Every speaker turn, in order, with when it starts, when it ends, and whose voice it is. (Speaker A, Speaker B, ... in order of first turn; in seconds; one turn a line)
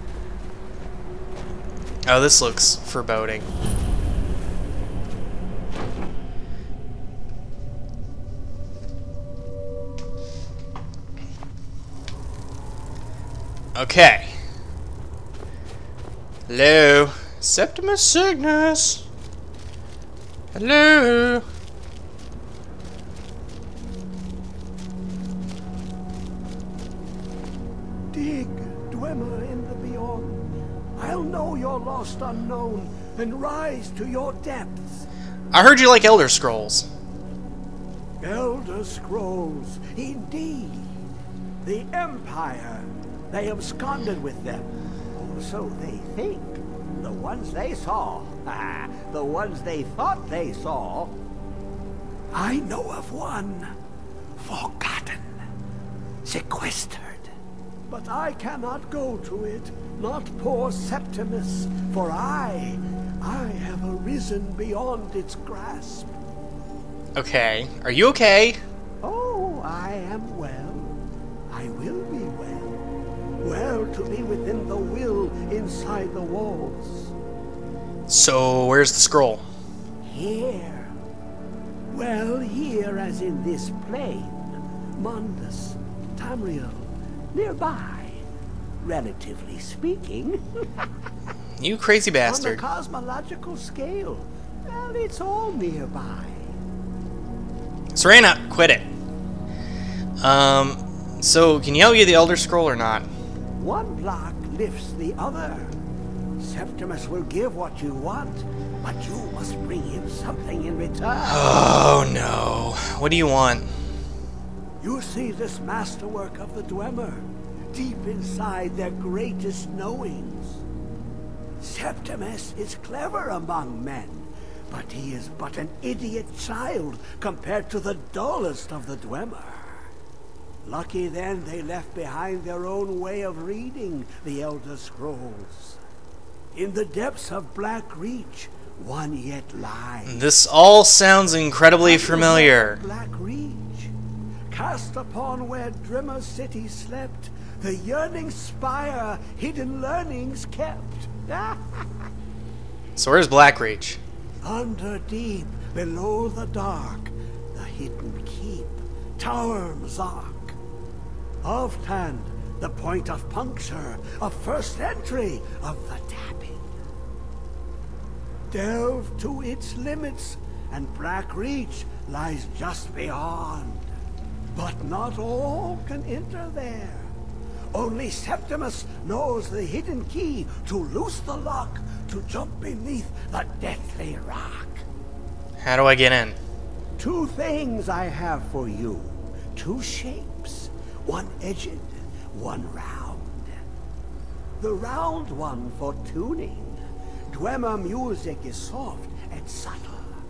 Speaker A: 2.0-3.5
Speaker A: 13.7-14.3
Speaker A: 16.5-19.0
Speaker A: 20.5-21.4
Speaker B: 28.1-35.0
Speaker A: 35.5-36.9
Speaker B: 38.2-40.9
Speaker B: 41.6-51.2
Speaker B: 52.3-53.7
Speaker B: 54.4-55.4
Speaker B: 56.2-57.3
Speaker B: 57.9-66.1
Speaker A: 67.1-68.6
Speaker B: 69.0-70.9
Speaker B: 71.5-72.8
Speaker B: 73.4-77.1
Speaker A: 78.1-79.4
Speaker B: 80.0-80.9
Speaker B: 81.9-88.2
Speaker B: 88.8-90.4
Speaker A: 91.6-92.6
Speaker B: 92.2-96.5
Speaker A: 97.9-98.9
Speaker A: 100.2-103.1
Speaker B: 103.6-105.7
Speaker B: 106.4-111.5
Speaker A: 111.2-113.7
Speaker B: 114.8-120.6
Speaker B: 121.6-129.8
Speaker B: 130.6-135.8
Speaker B: 136.5-140.2
Speaker A: 140.0-142.8
Speaker B: 141.8-143.9
Speaker B: 144.5-151.8
Speaker A: 153.0-154.0
Speaker B: 154.4-160.6
Speaker B: 161.4-166.7
Speaker B: 168.5-173.9
Speaker B: 174.5-177.1
Speaker B: 177.7-184.8
Speaker A: 185.6-186.4
Speaker B: 187.0-193.6
Speaker B: 194.6-200.1